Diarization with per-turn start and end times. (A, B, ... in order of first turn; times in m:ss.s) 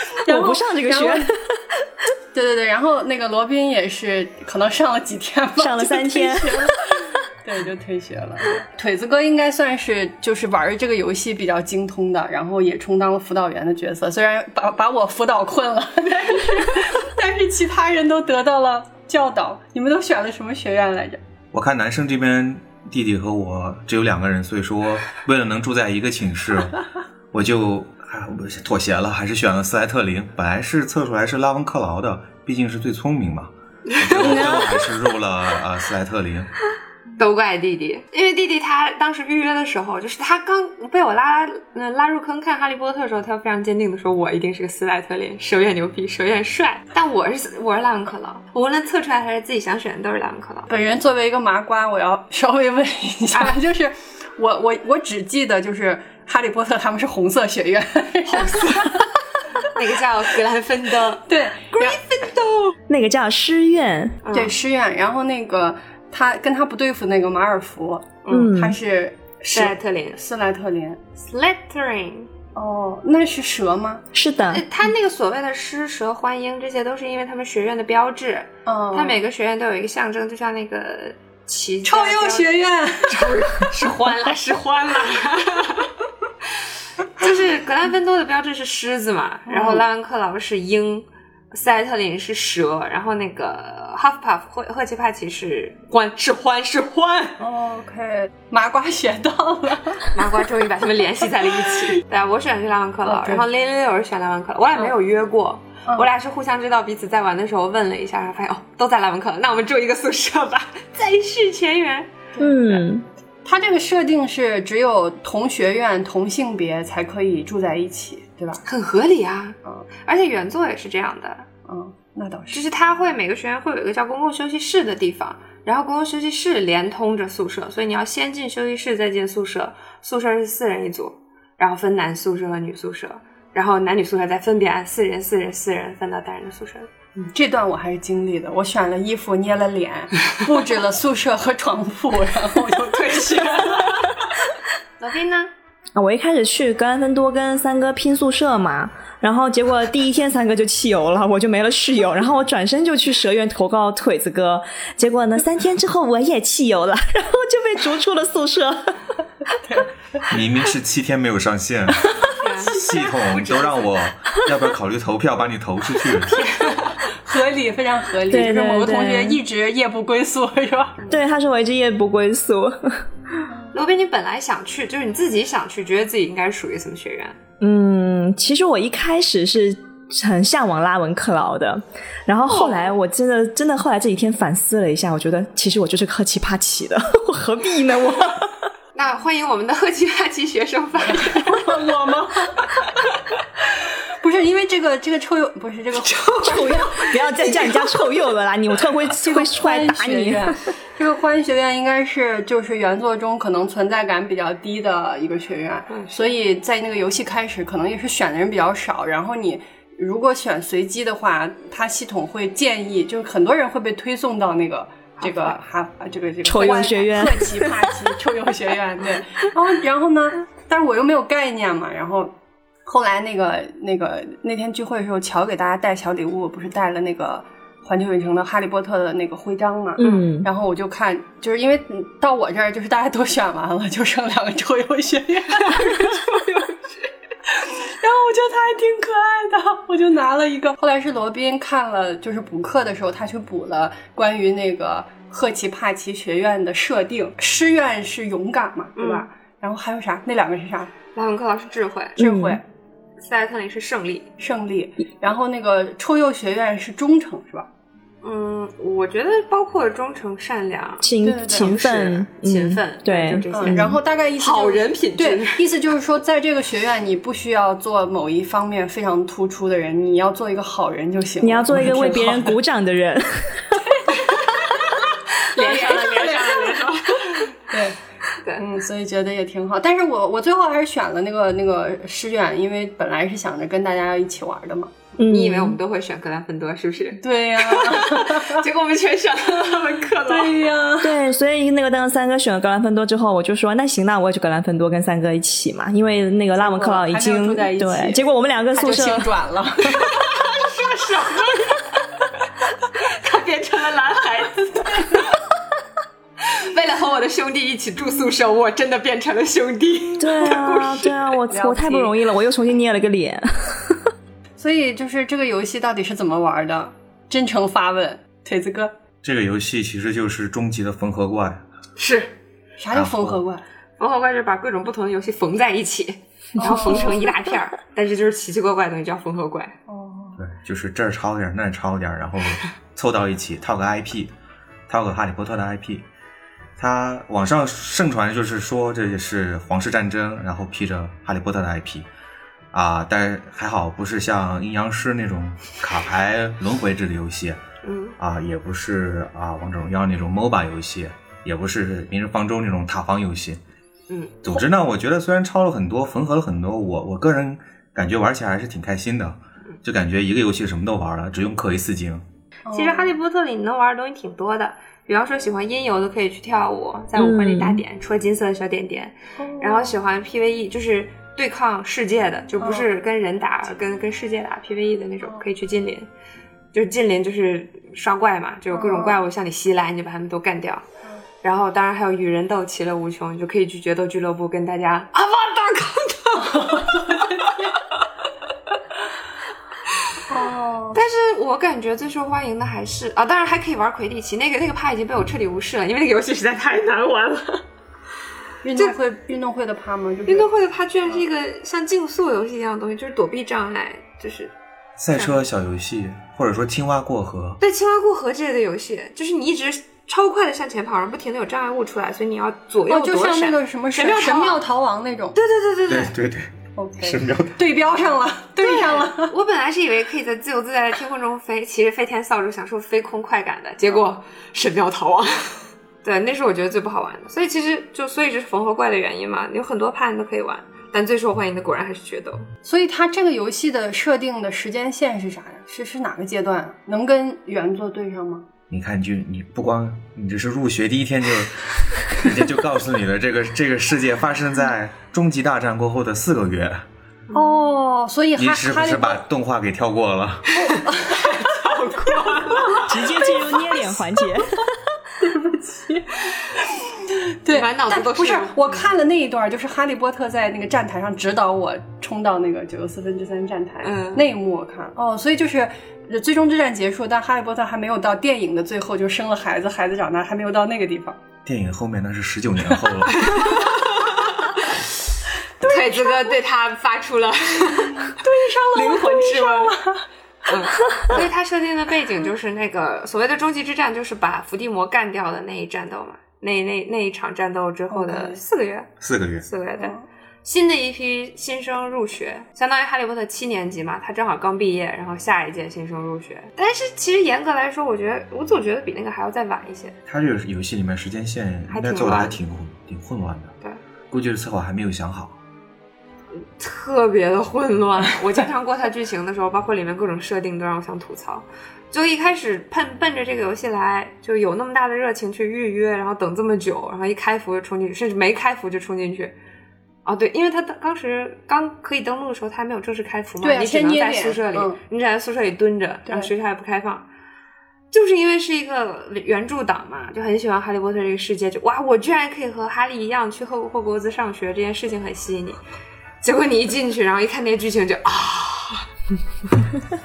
0:00.2-0:01.3 A
0:00.3-0:01.4 B
0:02.3-0:21.2 A
0:05.6-0:07.0 B
0:21.5-0:36.5 C
0:33.9-0:34.6 D
0:34.2-0:34.8 A
0:37.2-0:50.7 D
0:50.7-0:59.6 A
0:58.3-0:59.0 D
0:59.6-1:02.7 D
1:01.2-1:02.0 A
1:02.9-1:04.2 B
1:04.2-1:04.5 D
1:04.3-1:11.0 A
1:08.2-1:08.5 D
1:08.3-1:08.8 B
1:09.5-1:10.2 D
1:11.2-1:12.3 D
1:12.5-1:14.0 A
1:14.1-1:14.6 B
1:14.5-1:25.9 D
1:18.6-1:19.2 A
1:21.8-1:23.7 A
1:27.2-1:37.4 D
1:29.5-1:29.8 A
1:37.4-1:40.1 A
1:40.1-1:52.8 D
1:43.0-1:43.4 A
1:52.3-1:52.6 A
1:52.4-1:53.0 B
1:53.4-1:58.6 A
1:58.6-2:01.5 D
2:01.7-2:02.6 A
2:02.5-2:16.9 D
2:17.2-2:24.1 A
2:22.9-2:24.3 D
2:25.0-2:25.5 D
2:25.9-2:39.7 B
2:39.6-2:39.9 A
2:40.3-2:42.1 C
2:42.0-2:43.0 A
2:42.3-2:43.9 D
2:42.6-2:46.5 C
2:46.4-2:46.9 D
2:47.0-2:51.0 A
2:48.3-2:49.4 B
2:51.1-2:53.4 B
2:53.5-2:53.7 A
2:53.7-2:57.4 D
2:57.6-3:08.5 B
3:02.4-3:02.9 D
3:08.9-3:11.7 D
3:11.1-3:12.9 A
3:14.2-3:17.1 A
3:16.0-3:17.8 D
3:16.4-3:20.6 B
3:19.2-3:42.3 A
3:25.9-3:26.2 D
3:35.2-3:35.6 D
3:36.4-3:37.8 B
3:42.8-3:56.3 A
3:50.0-3:50.5 B
3:50.0-3:50.3 D
3:55.6-3:57.0 D
3:57.5-4:10.9 A
4:09.0-4:09.2 D
4:11.1-4:12.2 D
4:12.2-4:12.6 B
4:12.2-4:12.6 A
4:13.2-4:14.3 D
4:14.4-4:17.7 A
4:18.2-4:25.6 D
4:21.0-4:24.0 B
4:21.2-4:21.7 A
4:23.5-4:32.6 A
4:31.4-4:33.8 B
4:33.8-4:34.9 A
4:34.3-4:37.5 D
4:35.5-4:37.0 A
4:37.6-4:38.0 A
4:38.6-4:45.0 A
4:45.2-4:45.8 B
4:45.2-4:50.6 D
4:47.2-4:48.7 A
4:50.2-4:51.2 A
4:51.0-4:59.3 B
4:56.6-4:58.2 A
4:58.7-5:00.0 A
5:00.1-5:01.8 D
5:02.9-5:05.4 D
5:04.7-5:05.3 A
5:06.5-5:11.4 D
5:10.2-5:14.1 B
5:11.5-5:12.1 A
5:14.6-5:18.9 A
5:19.2-5:21.6 C
5:22.0-5:22.3 D
5:22.8-5:23.6 A
5:22.9-5:23.4 C
5:24.0-5:29.7 D
5:26.6-5:27.3 A
5:29.9-5:30.4 A
5:30.4-5:34.3 C
5:34.9-5:36.0 C
5:36.8-5:42.1 C
5:42.7-5:47.6 C
5:47.8-5:48.2 D
5:48.2-5:53.6 C
5:54.1-5:54.3 D
5:54.4-6:02.2 C
6:02.7-6:03.1 A
6:02.7-6:16.1 D
6:07.1-6:07.8 B
6:09.4-6:10.0 A
6:12.6-6:12.9 A
6:16.7-6:20.8 D
6:18.7-6:19.2 A
6:21.4-6:27.5 D
6:26.4-6:27.6 A
6:30.3-6:31.0 A
6:30.9-6:37.6 D
6:38.6-6:40.5 A
6:40.2-6:44.5 D
6:45.0-6:47.6 C
6:47.6-6:54.6 D
6:52.9-6:55.4 A
6:55.3-6:56.1 D
6:55.9-6:57.6 C
6:56.8-6:59.3 A
6:58.6-7:12.5 D
7:12.6-7:18.4 A
7:18.7-7:26.8 C
7:27.3-7:29.2 A
7:28.4-7:30.6 C
7:30.6-7:31.7 A
7:31.1-7:32.9 D
7:32.3-7:33.9 A
7:32.8-7:34.7 B
7:35.2-7:51.2 A
7:37.5-7:38.8 D
7:43.8-7:44.2 D
7:51.4-7:53.6 C
7:53.2-7:54.6 D
7:55.6-7:56.3 A
7:55.6-7:58.2 D
7:58.1-8:00.0 A
7:58.7-7:59.8 D
8:00.5-8:08.9 D
8:07.9-8:08.4 A
8:09.0-8:09.5 C
8:09.4-8:19.9 D
8:09.8-8:10.0 A
8:20.1-8:23.5 C
8:21.7-8:22.4 D
8:24.1-8:25.4 C
8:26.6-8:39.3 D
8:40.0-8:47.1 D
8:43.4-8:44.8 A
8:46.1-8:46.3 A
8:47.9-8:55.6 D
8:56.2-8:58.8 D